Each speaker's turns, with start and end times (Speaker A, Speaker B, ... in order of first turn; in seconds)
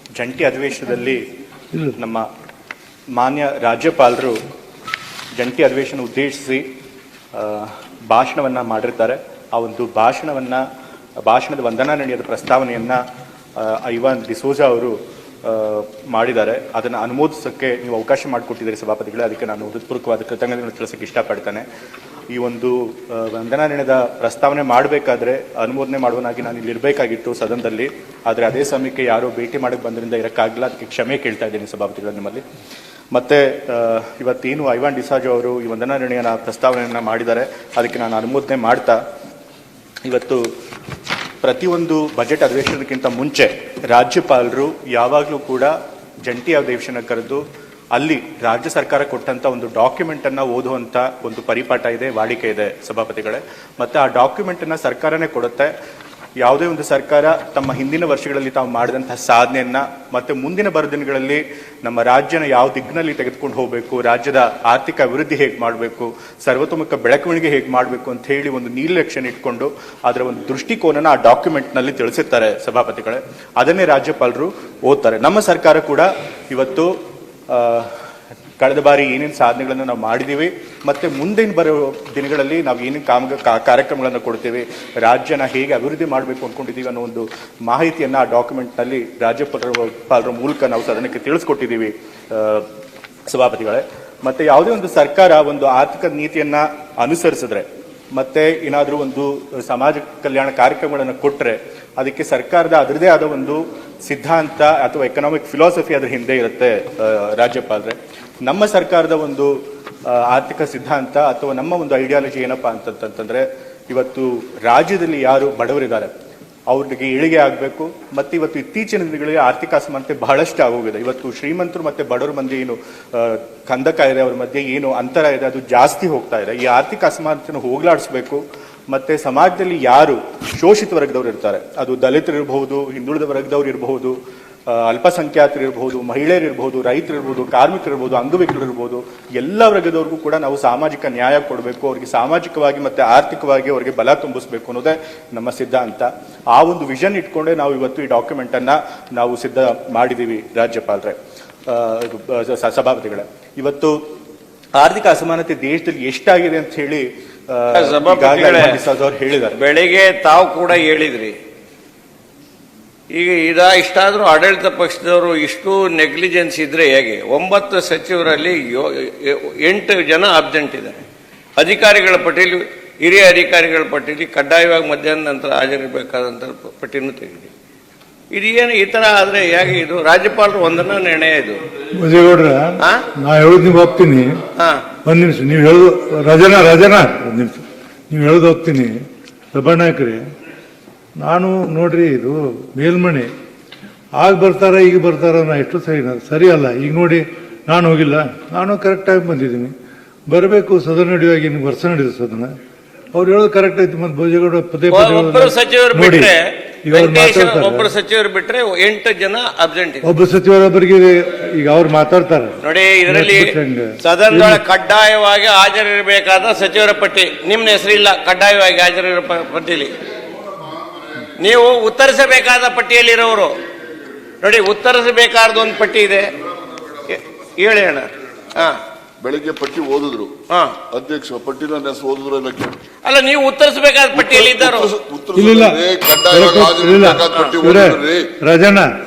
Speaker A: 0.1-1.2, 1.9-2.3, 3.1-4.4, 5.3-6.7, 7.3-10.6, 11.2-13.0, 13.6-21.7, 22.3-32.4, 33.1-39.0, 40.0-40.5, 41.4-47.4, 47.9-55.7, 56.4-76.9, 77.5-77.9, 78.6-92.7, 93.3-116.1, 116.7-154.0, 154.8-159.6
Speaker B: 157.7-158.8, 159.5-161.4, 163.1-171.0, 171.6-177.5, 178.3-181.6, 182.8-183.0, 184.6-184.8, 204.9-210.1, 212.6-219.9, 221.4-223.6, 224.4-226.3, 227.1-228.8, 230.5-230.8, 233.0-234.9
Speaker C: 181.9-184.3, 185.0-189.0, 189.5-190.2, 191.2-193.3, 194.2-199.7, 200.3-202.5, 203.1-207.9, 210.0-214.6, 235.3-238.9
Speaker D: 229.2-230.3, 230.9-232.8, 234.1-238.3